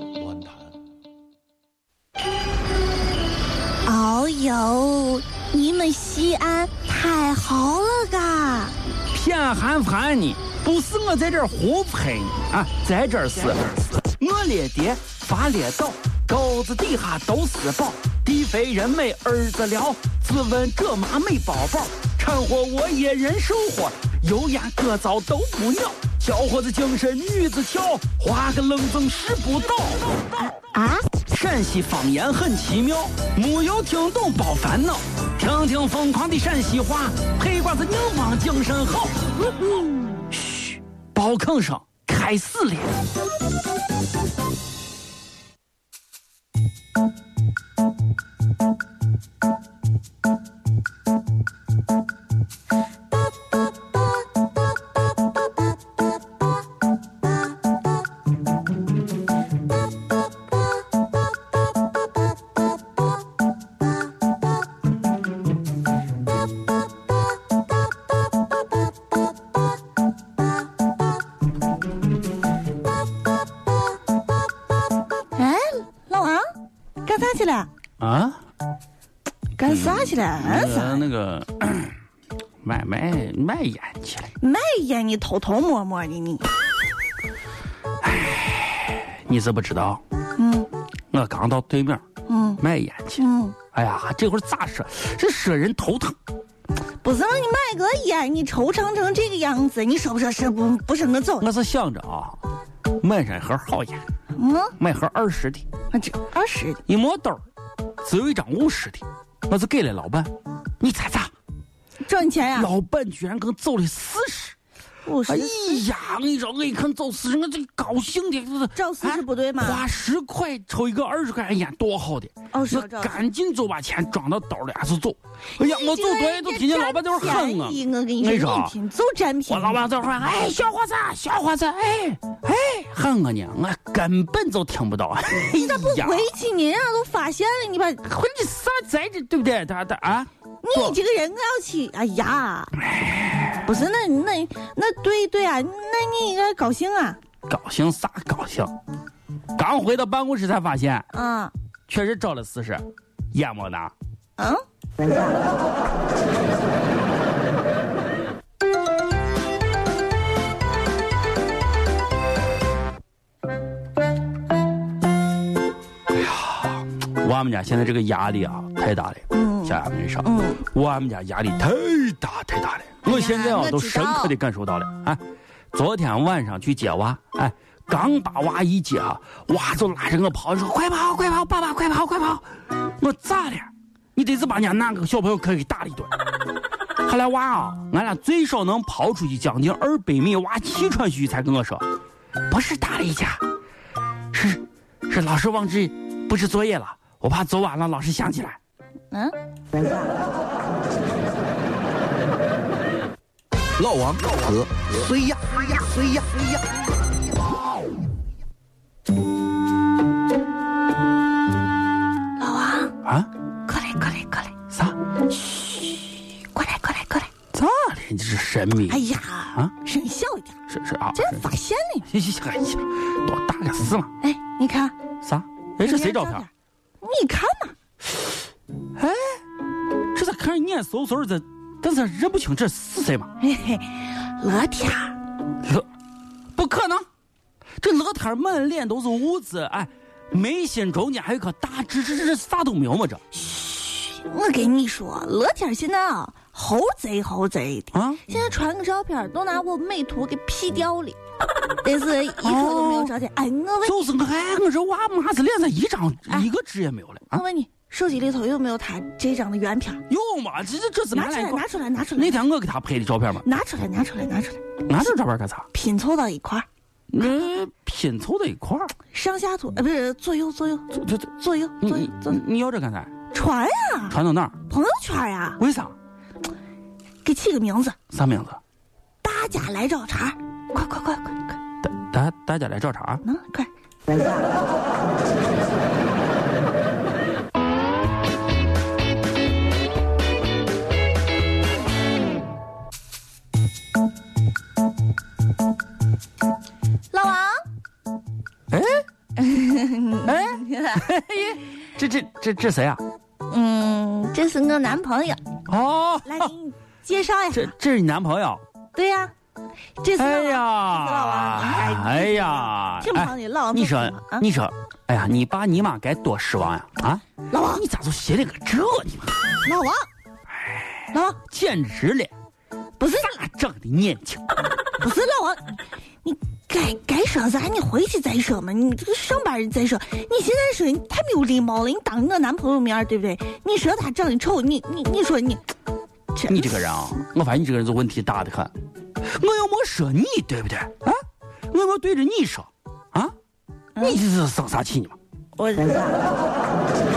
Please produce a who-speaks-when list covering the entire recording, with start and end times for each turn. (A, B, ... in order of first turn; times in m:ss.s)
0:03.8-0:08.8 A
0:09.1-0:30.4 B
0:30.4-0:31.1 A
0:31.3-0:39.3 B
0:40.4-0:43.0 B
1:15.3-1:16.4 A
1:17.0-1:17.7 A
1:18.0-1:18.4 B
1:19.6-1:21.1 A
1:19.6-1:22.0 B
1:22.6-1:24.3 B
1:24.4-1:26.4 A
1:28.0-1:30.0 B
1:30.4-1:30.7 A
1:31.1-1:32.0 B
1:32.3-1:32.6 A
1:32.6-1:36.2 B
1:33.2-1:33.6 A
1:37.0-1:41.5 A
1:41.4-1:42.4 B
1:43.0-1:44.0 B
1:44.3-1:44.8 A
1:44.8-1:45.7 B
1:45.9-1:46.8 A
1:46.9-1:47.4 B
1:48.0-1:51.3 B
1:52.0-1:52.7 A
1:52.5-1:54.6 B
1:55.0-1:55.8 A
1:55.3-2:08.7 B
1:58.7-1:59.8 A
2:02.5-2:03.2 A
2:05.6-2:09.8 A
2:09.5-2:16.3 B
2:15.4-2:18.0 A
2:18.0-2:21.0 B
2:20.6-2:22.8 A
2:23.6-2:27.2 A
2:27.5-2:28.7 B
2:29.6-2:31.1 B
2:31.1-2:31.5 A
2:31.9-2:33.9 B
2:34.4-2:35.2 A
2:46.1-2:55.2 B
2:49.3-2:50.6 A
2:53.0-2:54.4 A
2:55.7-3:06.1 B
3:07.0-3:11.8 B
3:12.5-3:13.4 B
3:14.3-3:18.6 B
3:19.1-3:19.8 A
3:23.8-3:26.5 C
3:32.4-3:32.9 A
3:33.0-3:33.3 B
3:33.6-3:34.5 A
3:34.7-3:35.0 B
3:35.3-3:37.3 A
3:37.5-3:39.0 B
3:38.9-3:40.6 A
3:40.7-3:41.4 B
3:41.1-3:42.1 A
3:42.1-3:44.1 B
3:44.2-3:44.9 A
3:45.2-3:46.5 B
3:45.8-3:46.5 A
3:47.0-3:47.7 A
3:49.0-3:49.4 B
3:50.1-3:53.3 B
3:53.4-3:55.2 A
3:56.5-3:57.0 B
3:57.8-4:03.2 B
4:03.3-4:11.2 A
4:07.9-4:08.2 B
4:11.8-4:14.0 A
4:12.4-4:13.1 B
4:13.8-4:17.4 B
4:17.3-4:20.0 A
4:20.1-4:23.4 B
4:21.1-4:22.4 A
4:23.4-4:24.8 A
4:24.9-4:25.7 B
4:25.7-4:26.6 A
4:27.1-4:28.9 B
4:29.1-4:32.4 A
4:31.8-4:33.1 B
4:33.3-4:34.2 A
4:34.1-4:34.6 B
4:34.7-4:35.6 A
4:35.6-4:35.9 B
4:37.2-4:38.0 A
4:38.1-4:38.6 B
4:39.2-4:41.6 A
4:41.8-4:43.2 B
4:43.2-4:44.2 A
4:57.1-4:57.6 A
4:58.7-4:59.0 B
4:59.4-5:01.1 A
5:00.2-5:03.0 B
5:03.5-5:05.4 A
5:05.7-5:06.5 B
5:06.2-5:07.7 A
5:07.5-5:08.6 B
5:08.9-5:09.3 A
5:10.0-5:14.4 A
5:10.2-5:19.4 B
5:17.5-5:17.8 A
5:19.6-5:20.1 A
5:20.6-5:22.3 B
5:21.1-5:21.4 A
5:23.0-5:23.4 A
5:23.2-5:24.4 B
5:25.0-5:35.6 A
5:36.3-5:36.9 A
5:36.5-5:38.7 B
5:39.3-5:41.2 B
5:41.7-5:43.3 B
5:44.0-5:44.2 A
5:44.0-5:45.2 B
5:45.6-5:46.3 A